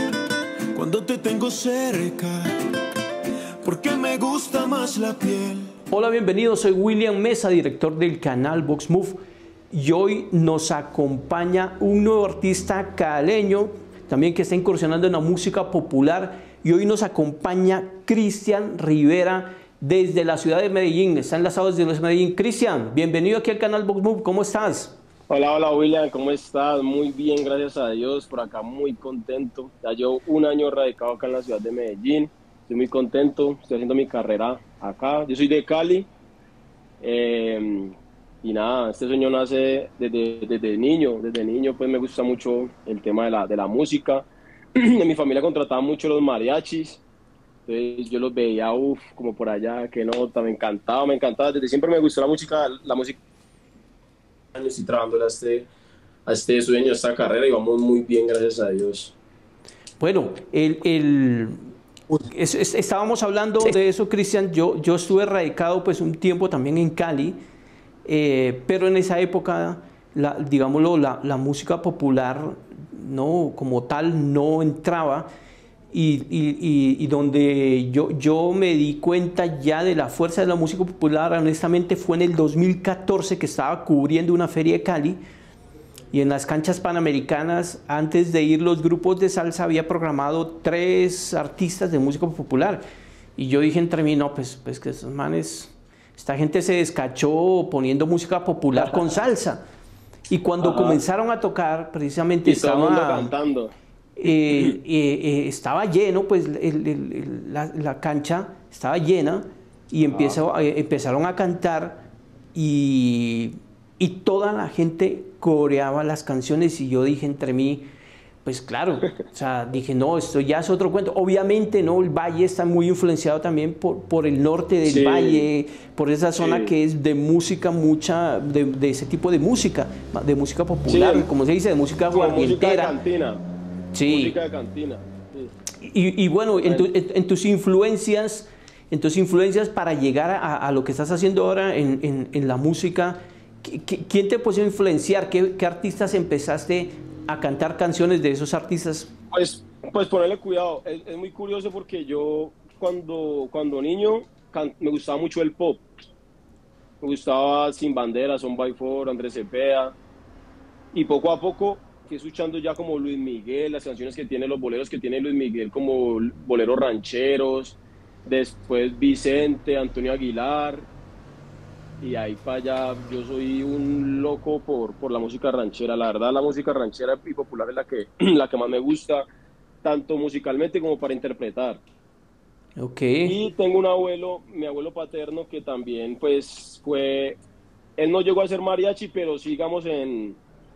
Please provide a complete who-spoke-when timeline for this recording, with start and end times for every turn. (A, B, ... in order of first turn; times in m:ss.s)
0:00.7-0:02.4 A
0:00.8-0:01.9 B
0:03.6-0:05.6 A
0:04.6-0:05.5 B
0:05.9-0:09.2 C
0:09.7-0:25.0 C
0:25.3-0:36.1 B
0:37.0-0:47.0 B
0:47.7-0:53.2 B
0:54.6-0:55.7 B
0:56.3-0:59.2 B
1:00.0-1:01.6 C
1:02.3-1:07.4 C
1:08.0-1:15.3 C
1:15.9-1:25.2 C
1:26.1-1:32.8 C
1:33.4-1:39.6 C
1:38.7-1:39.1 B
1:40.3-1:43.3 C
1:40.6-1:41.0 B
1:42.4-1:43.7 B
1:44.2-1:57.8 C
1:44.5-1:44.8 B
1:50.0-1:50.4 B
1:58.4-2:13.0 C
2:04.8-2:05.5 B
2:06.4-2:06.7 B
2:10.9-2:11.3 B
2:12.1-2:13.4 B
2:13.9-2:14.4 C
2:14.1-2:15.5 B
2:15.8-2:29.1 C
2:16.6-2:16.9 B
2:29.3-2:35.8 B
2:37.0-2:40.0 B
2:40.9-2:50.9 B
2:52.0-2:59.3 B
2:59.8-3:01.8 B
3:02.8-3:03.4 C
3:03.2-3:07.4 B
3:08.0-3:10.4 B